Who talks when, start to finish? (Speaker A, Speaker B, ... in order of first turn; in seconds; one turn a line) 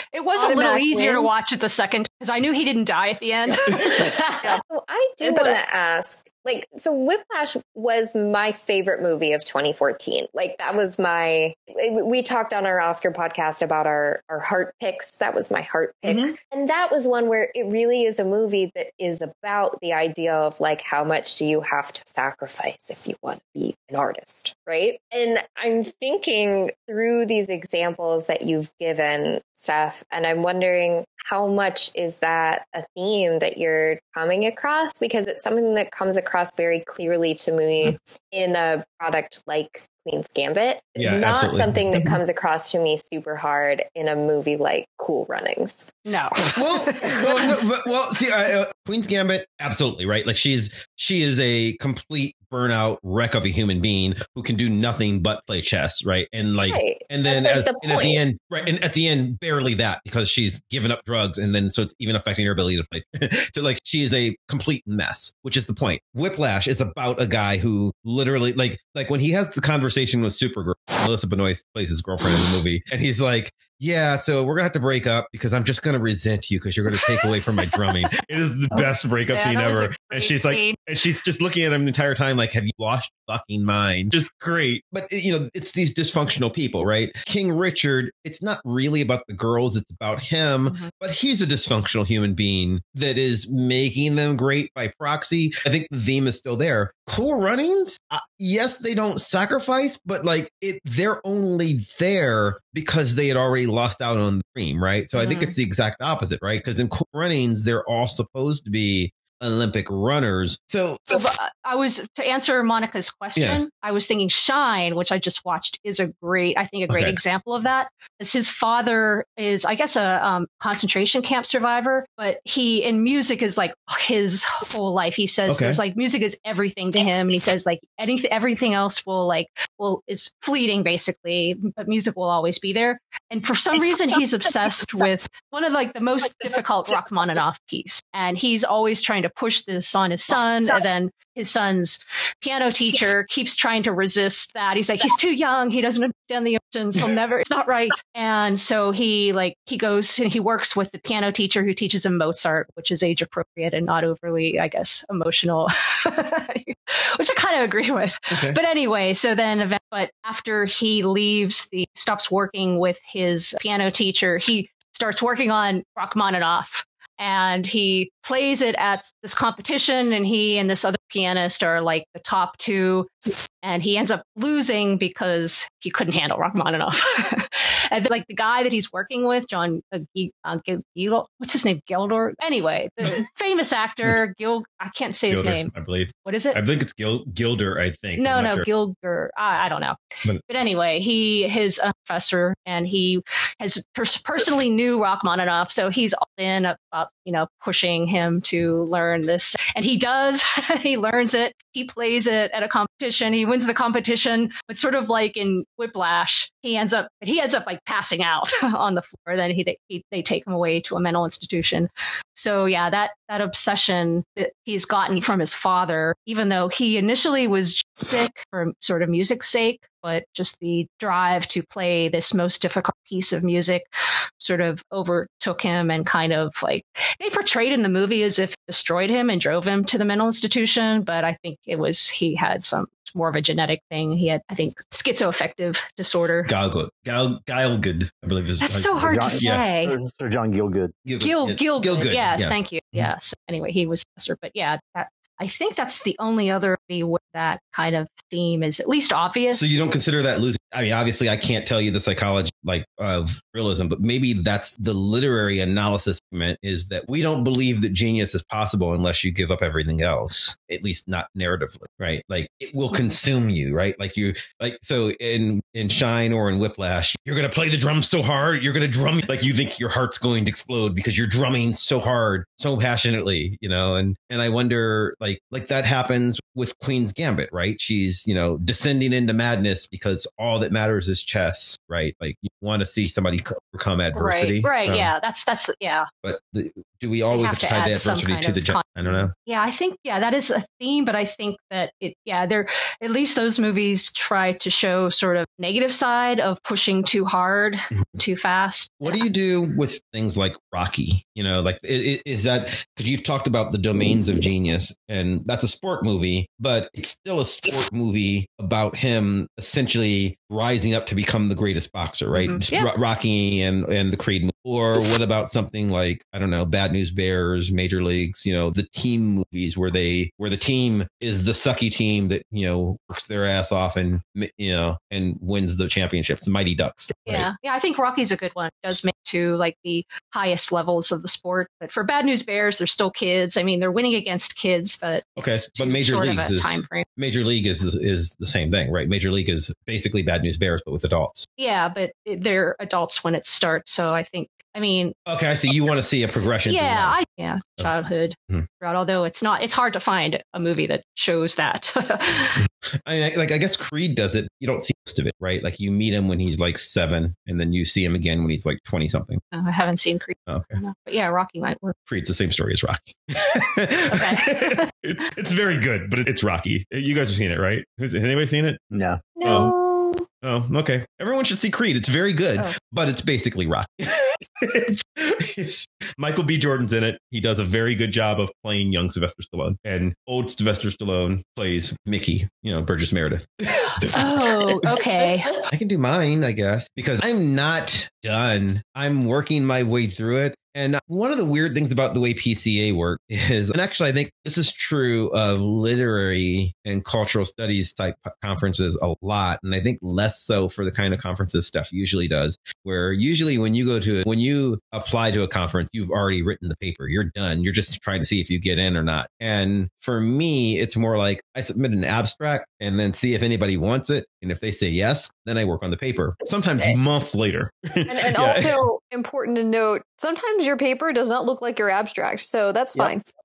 Speaker A: 0.1-4.4
Speaker B: 0.3-1.3
Speaker C: 3.9-45.9
Speaker B: 5.2-5.6
Speaker D: 16.1-16.3
Speaker D: 41.0-42.1
Speaker A: 46.0-47.5
Speaker D: 46.5-111.2
Speaker C: 56.6-58.2
Speaker A: 78.7-80.8
Speaker A: 90.6-90.9
Speaker A: 105.2-105.5
Speaker A: 111.1-173.1
Speaker D: 113.4-113.6
Speaker D: 116.9-117.2
Speaker D: 125.5-125.8
Speaker D: 158.3-158.6
Speaker A: 173.6-185.7
Speaker D: 185.3-188.7
Speaker A: 186.2-186.6
Speaker A: 188.2-223.8
Speaker A: 224.4-236.5
Speaker D: 236.4-239.6
Speaker A: 238.6-239.9
Speaker E: 239.0-241.0
Speaker D: 241.1-243.1
Speaker A: 241.2-249.8
Speaker D: 249.5-285.1
Speaker B: 284.1-284.5
Speaker A: 284.6-286.1
Speaker D: 286.2-289.3
Speaker A: 287.3-299.1
Speaker D: 299.0-327.5
Speaker A: 312.3-312.9
Speaker A: 327.3-337.1
Speaker D: 335.4-341.5
Speaker A: 341.6-345.1
Speaker D: 345.2-347.2
Speaker A: 346.7-352.6
Speaker D: 353.0-359.4
Speaker A: 359.5-361.9
Speaker D: 360.5-360.8
Speaker D: 362.1-368.9
Speaker A: 364.1-364.9
Speaker E: 368.9-369.2
Speaker C: 369.4-370.2
Speaker D: 369.4-369.7
Speaker D: 370.4-384.9
Speaker A: 384.1-385.5
Speaker D: 385.7-418.8
Speaker B: 418.1-423.2